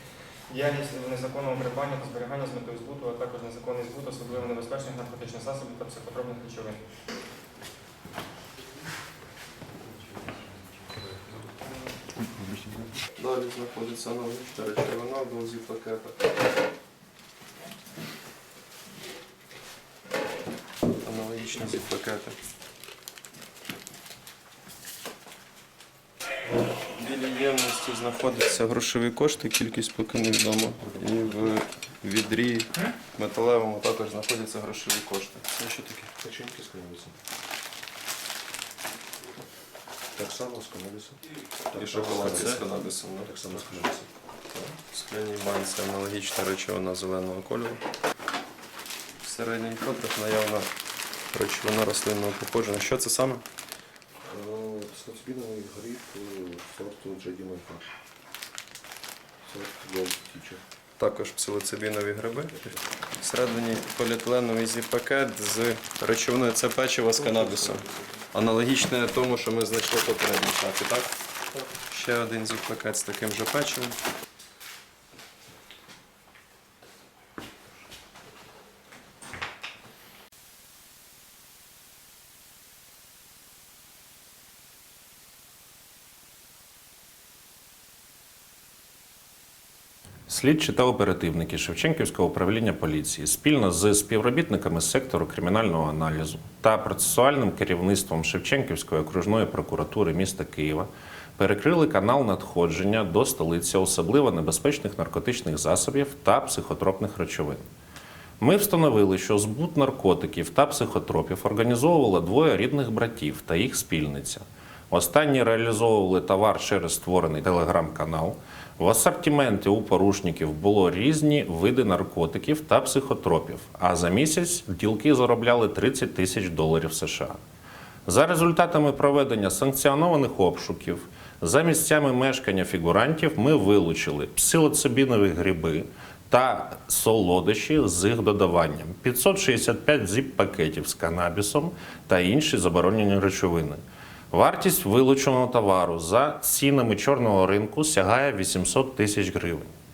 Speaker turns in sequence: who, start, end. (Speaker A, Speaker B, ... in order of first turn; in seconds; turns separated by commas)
Speaker A: 0.5-6.8, Speaker B: 13.2-16.2, Speaker B: 20.9-22.4, Speaker B: 26.9-36.1, Speaker C: 36.2-37.2, Speaker C: 40.1-42.7, Speaker B: 41.7-43.9, Speaker C: 43.2-44.1, Speaker B: 44.5-47.8, Speaker B: 49.2-50.7, Speaker B: 51.3-53.4, Speaker C: 54.2-57.9, Speaker C: 59.4-60.6, Speaker B: 61.0-71.1, Speaker C: 67.4-67.8, Speaker B: 71.9-74.0, Speaker D: 90.3-107.7, Speaker D: 108.4-127.4, Speaker D: 128.1-149.7